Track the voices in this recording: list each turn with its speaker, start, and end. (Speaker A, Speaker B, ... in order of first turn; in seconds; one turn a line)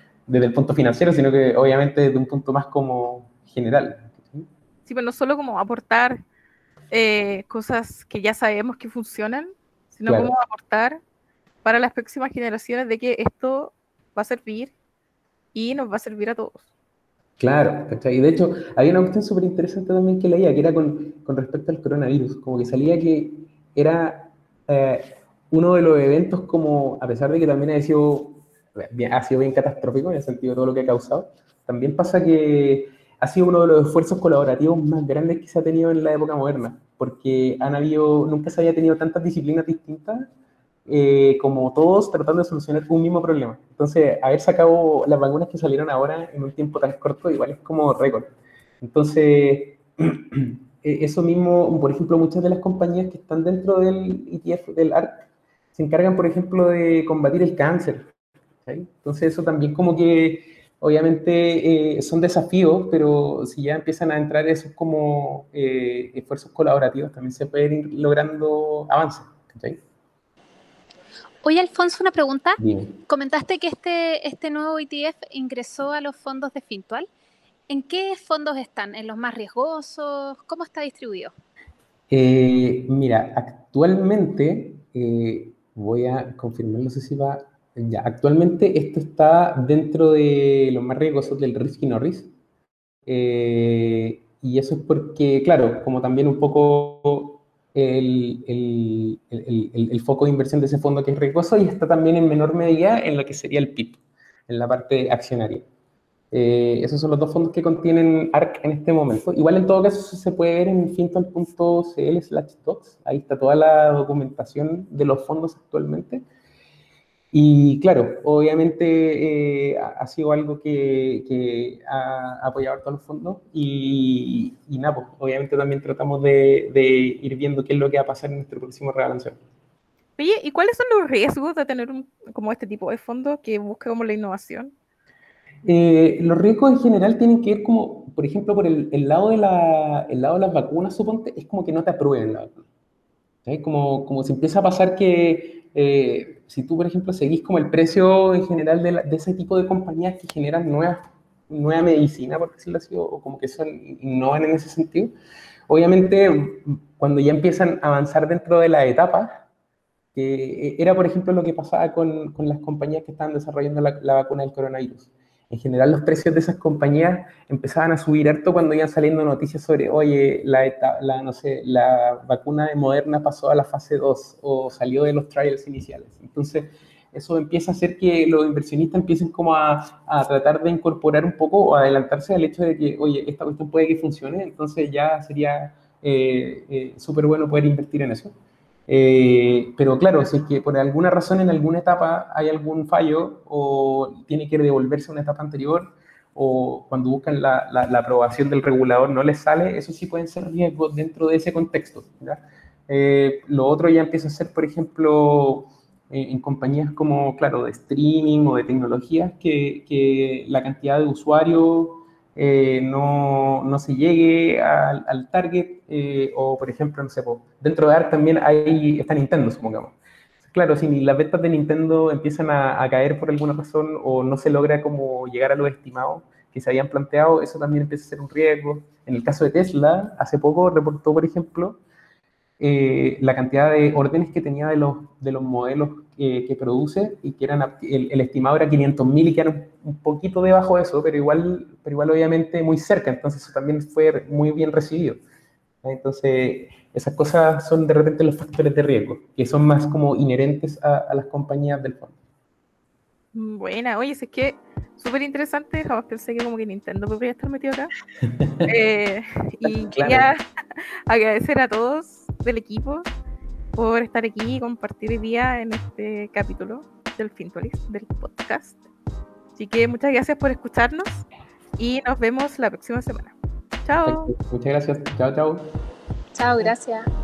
Speaker A: 0.3-4.5
Speaker B: 4.9-6.2
Speaker B: 6.9-11.0
Speaker A: 10.1-10.3
Speaker B: 11.6-14.7
Speaker B: 15.5-16.6
Speaker A: 17.4-40.3
Speaker A: 40.9-58.1
Speaker A: 58.6-69.8
Speaker C: 71.4-77.1
Speaker A: 72.6-72.9
Speaker C: 77.7-81.3
Speaker A: 82.1-92.3
Speaker A: 93.1-105.6
Speaker A: 106.3-116.2
Speaker A: 117.3-129.4
Speaker B: 130.2-134.7
Speaker A: 135.6-142.6
Speaker A: 143.4-155.1
Speaker A: 155.7-159.4
Speaker A: 160.1-188.3
Speaker A: 188.9-231.8
Speaker A: 232.6-245.2
Speaker A: 245.8-252.2
Speaker B: 253.3-257.9
Speaker A: 258.3-258.7
Speaker B: 258.6-263.1
Speaker A: 259.6-260.3
Speaker B: 263.8-268.8
Speaker B: 269.6-271.2
Speaker B: 271.8-273.3
Speaker B: 273.8-274.3
Speaker A: 274.0-275.7
Speaker C: 276.3-277.1